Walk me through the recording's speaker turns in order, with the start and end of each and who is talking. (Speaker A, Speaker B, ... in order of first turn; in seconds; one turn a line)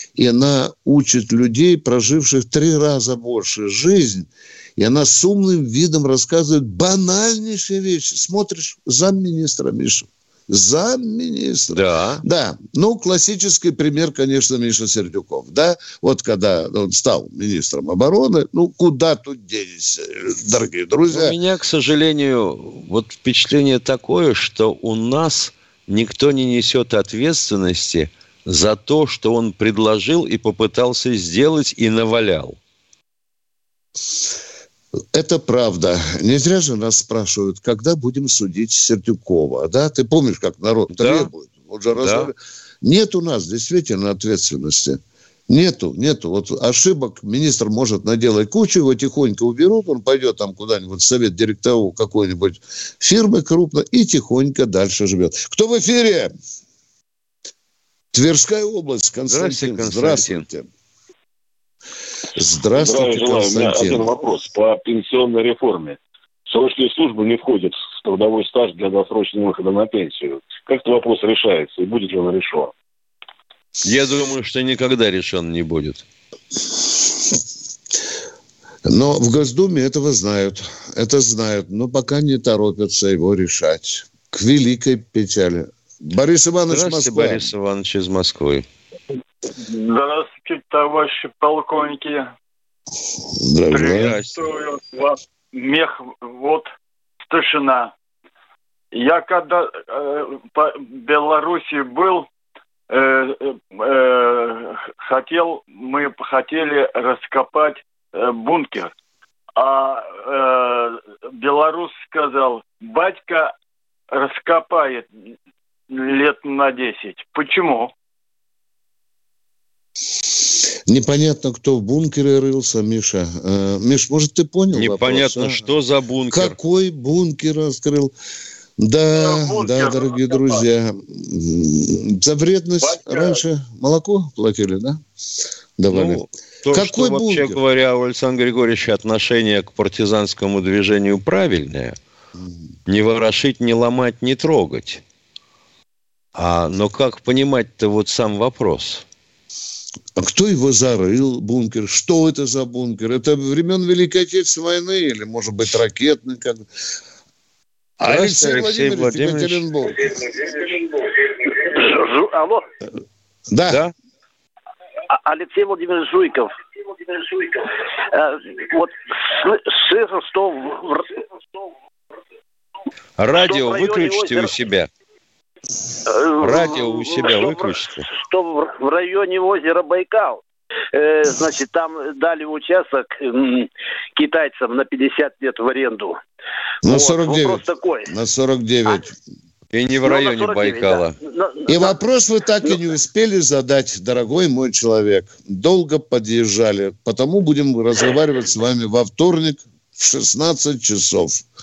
Speaker A: 0.1-21.4
Speaker B: 11.7-12.2
Speaker B: 21.1-32.6
Speaker A: 35.1-56.3
Speaker B: 40.9-41.3
Speaker B: 42.0-42.3
Speaker A: 58.1-60.7
Speaker B: 59.3-60.4
Speaker A: 62.3-64.1
Speaker C: 62.7-72.7
Speaker B: 73.8-76.0
Speaker A: 78.8-87.5
Speaker B: 86.7-88.7
Speaker D: 89.5-92.3
Speaker A: 93.3-94.2
Speaker D: 93.7-96.7
Speaker B: 93.9-94.4
Speaker D: 97.2-97.9
Speaker D: 98.9-102.3
Speaker D: 102.9-108.9
Speaker D: 109.5-113.5
Speaker D: 114.1-115.1
Speaker D: 115.9-117.9
Speaker A: 120.9-125.6
Speaker B: 124.7-126.5
Speaker A: 126.3-128.1
Speaker A: 128.8-135.0
Speaker D: 129.2-130.6
Speaker D: 132.8-133.4
Speaker A: 135.8-137.6
Speaker B: 135.9-141.9
Speaker B: 142.9-145.0
Speaker B: 146.3-149.0
Speaker A: 150.2-156.7
Speaker A: 158.0-160.0
Speaker B: 158.0-159.6
Speaker E: 161.5-162.6
Speaker A: 163.5-163.8
Speaker E: 165.1-166.5
Speaker E: 168.1-171.2
Speaker B: 173.2-174.9
Speaker E: 173.3-174.5
Speaker E: 176.1-180.4
Speaker B: 176.4-178.1
Speaker E: 180.9-186.2
Speaker A: 186.8-189.1
Speaker E: 186.8-188.1
Speaker B: 189.7-191.1
Speaker E: 190.0-192.0
Speaker A: 191.7-201.4